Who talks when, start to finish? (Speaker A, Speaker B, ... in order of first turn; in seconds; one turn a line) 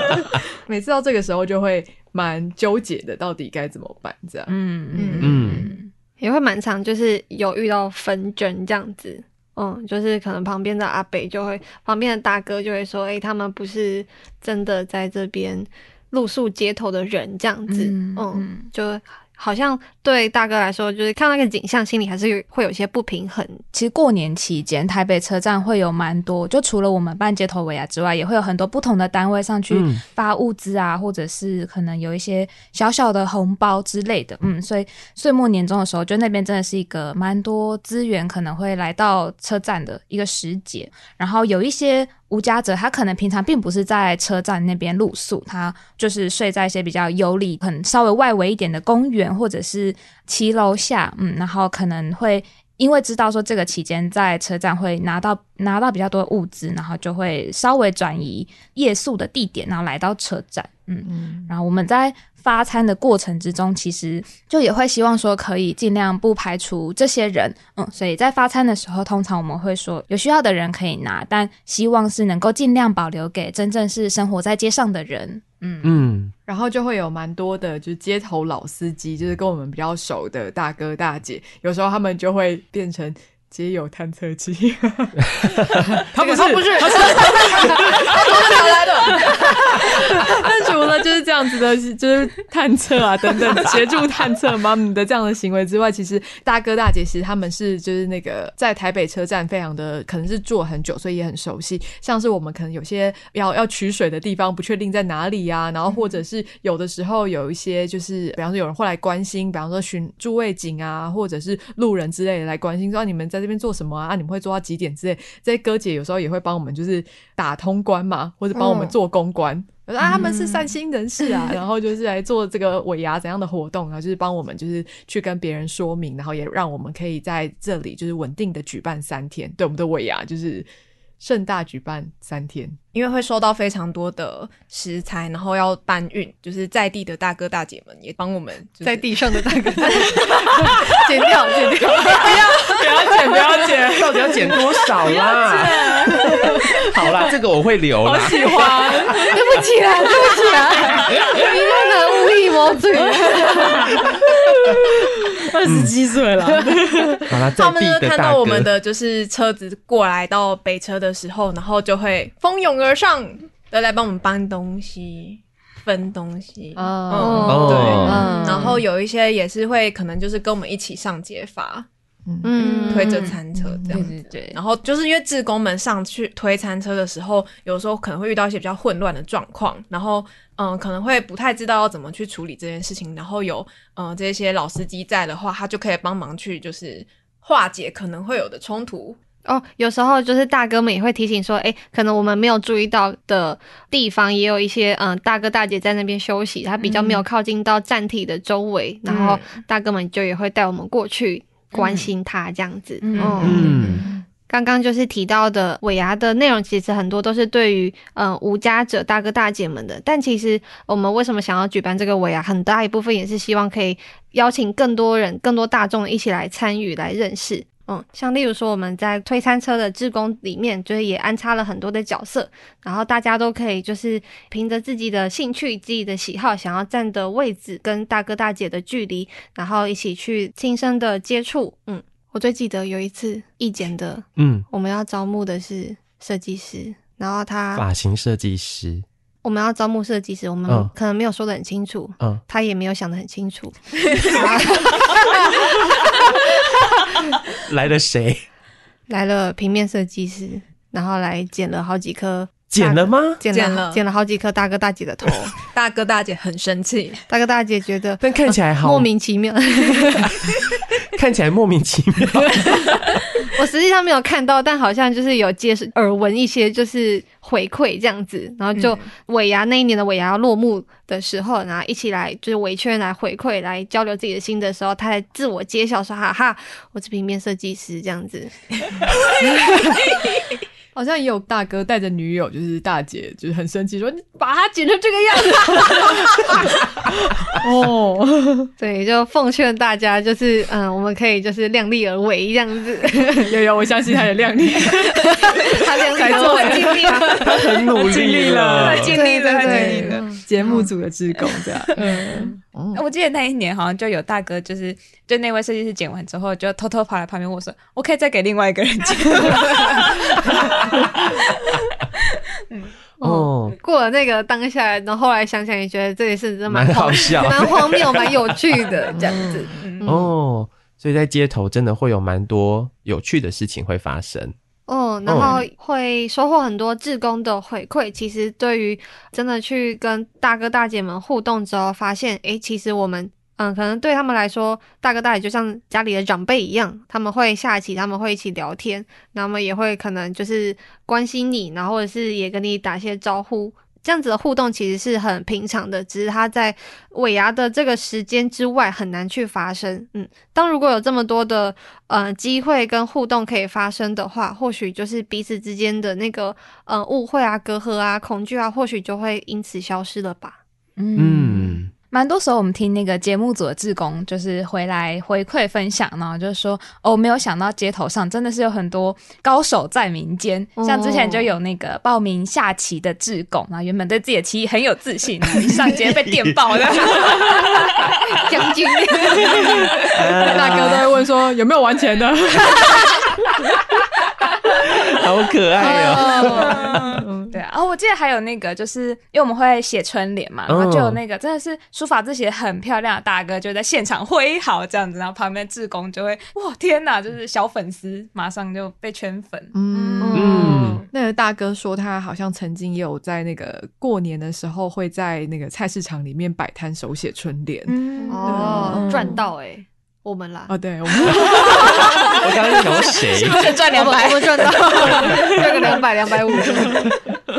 Speaker A: 0.7-4.5
Speaker B: 4.5-5.9
Speaker C: 5.0-5.4
Speaker D: 5.2-5.7
Speaker E: 6.2-23.6
Speaker B: 17.7-18.7
Speaker B: 23.7-76.0
Speaker D: 29.7-30.0
Speaker A: 61.1-61.5
Speaker D: 75.8-76.3
Speaker A: 76.5-130.7
Speaker E: 86.2-88.8
Speaker C: 86.4-89.6
Speaker C: 118.5-118.9
Speaker C: 120.2-120.6
Speaker A: 131.2-132.8
Speaker C: 132.9-139.1
Speaker E: 138.8-142.7
Speaker C: 139.8-141.0
Speaker A: 140.4-140.8
Speaker A: 142.1-146.9
Speaker D: 143.9-148.7
Speaker A: 148.0-149.4
Speaker E: 149.3-154.1
Speaker A: 150.9-151.4
Speaker A: 153.1-157.3
Speaker D: 155.7-155.9
Speaker D: 157.3-158.8
Speaker C: 157.6-171.9
Speaker A: 166.8-168.8
Speaker E: 167.1-168.7
Speaker D: 167.5-168.3
Speaker B: 168.0-168.7
Speaker A: 172.3-174.1
Speaker E: 172.4-173.3
Speaker C: 172.5-189.2
Speaker B: 172.9-173.4
Speaker B: 173.9-174.6
Speaker E: 189.4-237.9
Speaker B: 196.8-197.2
Speaker C: 199.1-199.6
Speaker B: 201.7-202.1
Speaker B: 203.0-203.8
Speaker C: 203.2-203.8
Speaker D: 203.4-204.1
Speaker A: 203.7-204.1
Speaker D: 234.4-234.7
Speaker D: 237.8-239.1
Speaker E: 239.4-246.3
Speaker D: 247.5-248.5
Speaker E: 249.1-255.6
Speaker D: 252.7-253.4
Speaker C: 253.5-254.0
Speaker C: 255.6-257.2
Speaker E: 257.3-260.4
Speaker D: 258.2-259.1
Speaker D: 260.2-260.6
Speaker D: 261.1-263.5
Speaker E: 263.4-279.1
Speaker C: 268.8-269.1
Speaker A: 279.5-279.8
Speaker A: 280.9-288.7
Speaker E: 288.8-293.6
Speaker A: 293.3-303.0
Speaker E: 295.2-297.6
Speaker D: 297.2-299.2
Speaker B: 298.8-300.8
Speaker E: 299.1-300.9
Speaker B: 301.4-312.9
Speaker E: 313.2-320.3
Speaker D: 313.2-313.8
Speaker D: 316.7-318.6
Speaker A: 319.1-319.6
Speaker D: 320.0-324.6
Speaker E: 324.9-360.6
Speaker D: 325.3-325.6
Speaker B: 361.0-378.2
Speaker D: 361.2-361.9
Speaker E: 370.8-371.5
Speaker D: 375.8-376.6
Speaker D: 377.1-377.4
Speaker E: 378.4-379.9
Speaker D: 379.4-381.1
Speaker A: 379.5-379.8
Speaker B: 379.5-380.0
Speaker A: 380.4-383.0
Speaker D: 384.7-386.8
Speaker E: 385.8-386.7
Speaker A: 385.9-387.6
Speaker B: 386.0-400.7
Speaker D: 390.7-391.2
Speaker A: 399.7-409.4
Speaker E: 400.2-401.1
Speaker D: 400.3-401.0
Speaker B: 407.9-409.3
Speaker E: 408.3-417.1
Speaker A: 410.7-412.4
Speaker B: 411.8-412.4
Speaker D: 412.3-413.8
Speaker B: 413.0-416.0
Speaker A: 415.0-415.6
Speaker A: 416.8-417.1